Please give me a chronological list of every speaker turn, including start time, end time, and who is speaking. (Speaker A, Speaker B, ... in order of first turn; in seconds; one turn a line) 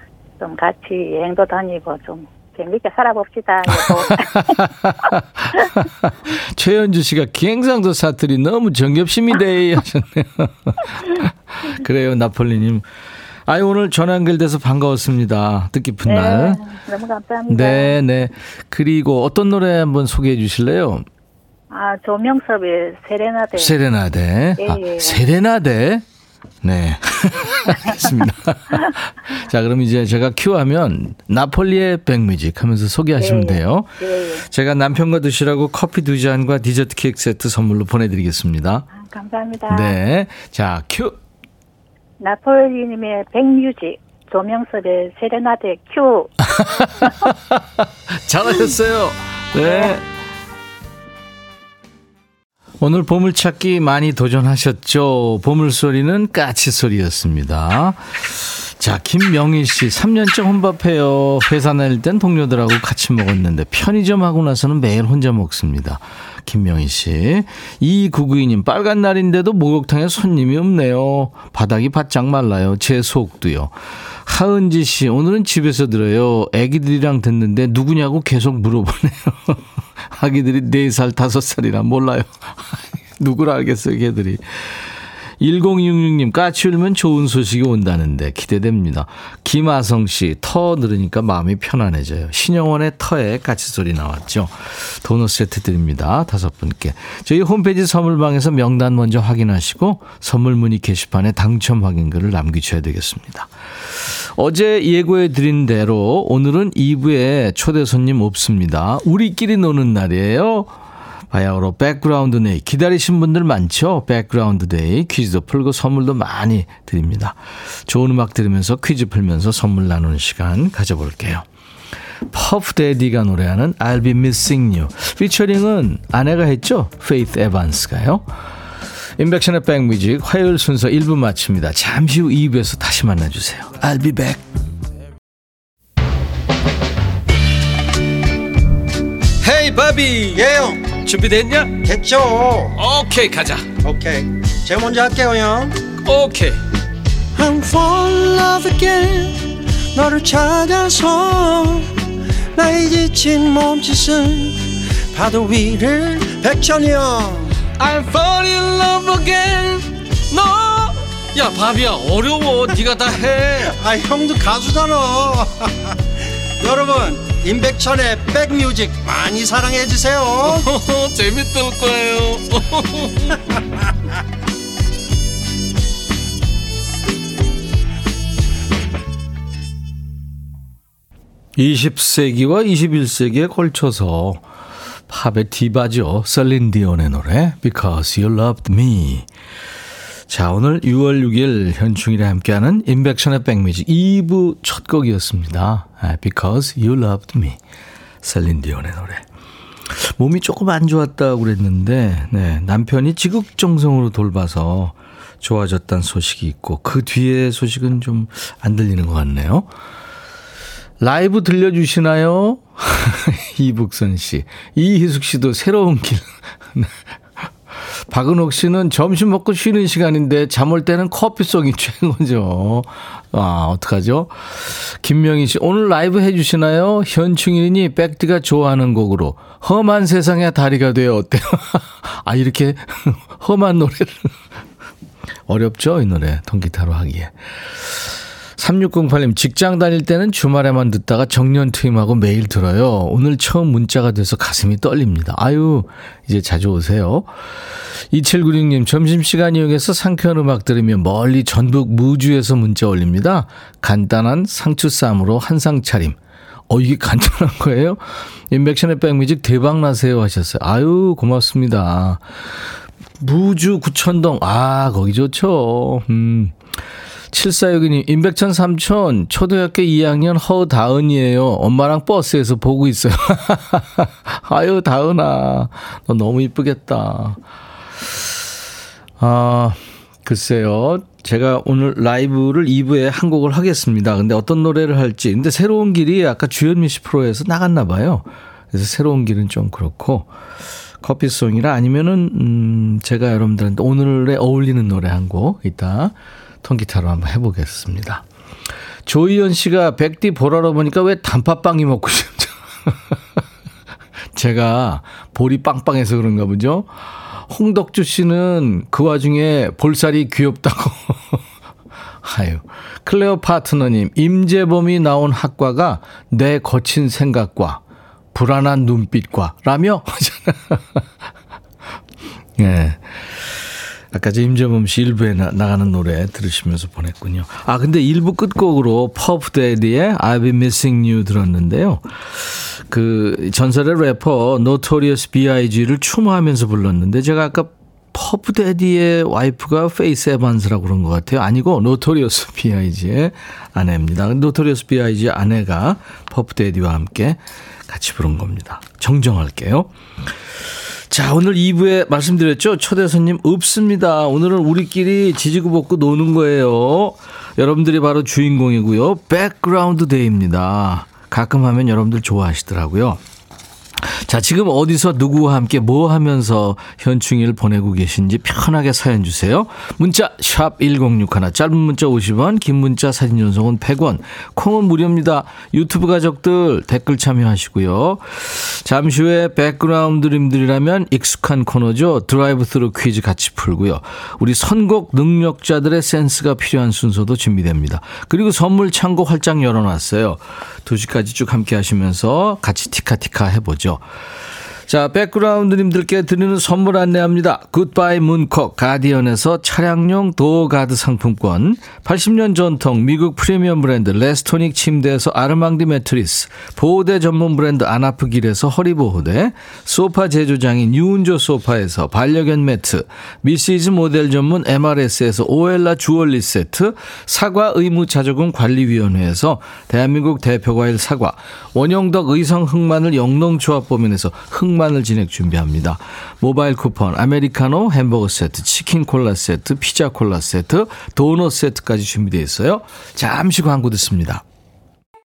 Speaker A: 0.4-4.6
Speaker B: 3.7-12.8
Speaker B: 13.5-16.6
Speaker A: 16.1-17.9
Speaker B: 17.5-21.1
Speaker A: 21.7-23.7
Speaker B: 23.6-26.1
Speaker A: 24.6-25.2
Speaker B: 26.6-33.9
Speaker A: 33.2-34.5
Speaker B: 34.4-38.9
Speaker A: 39.0-40.0
Speaker B: 39.7-41.2
Speaker A: 42.2-47.1
Speaker B: 46.5-50.0
Speaker A: 49.6-49.9
Speaker B: 52.8-73.7
Speaker B: 74.3-84.7
Speaker B: 85.4-110.7
Speaker B: 111.3-121.5
Speaker B: 122.3-128.3
Speaker B: 129.2-134.4
Speaker C: 139.4-141.0
Speaker B: 141.0-141.8
Speaker C: 141.7-142.8
Speaker B: 142.8-143.7
Speaker C: 143.8-145.9
Speaker B: 146.0-146.6
Speaker C: 147.3-157.6
Speaker B: 157.7-163.8
Speaker C: 163.6-165.9
Speaker C: 166.6-170.6
Speaker B: 170.4-173.4
Speaker B: 181.6-184.4
Speaker B: 185.1-189.3
Speaker B: 190.3-197.6
Speaker B: 198.2-199.2
Speaker B: 199.9-209.7
Speaker B: 211.0-216.9
Speaker B: 218.1-234.3
Speaker B: 235.5-247.3
Speaker B: 248.1-256.2
Speaker B: 256.7-262.2
Speaker B: 263.2-266.6
Speaker B: 267.3-277.4
Speaker B: 279.2-290.3
Speaker B: 291.0-298.2
Speaker B: 299.1-303.2
Speaker B: 304.4-306.9
Speaker B: 307.5-311.4
Speaker B: 312.2-317.8
Speaker B: 318.3-321.1
Speaker B: 322.6-349.9
Speaker B: 351.1-363.2
Speaker B: 364.0-394.0
Speaker B: 394.9-434.4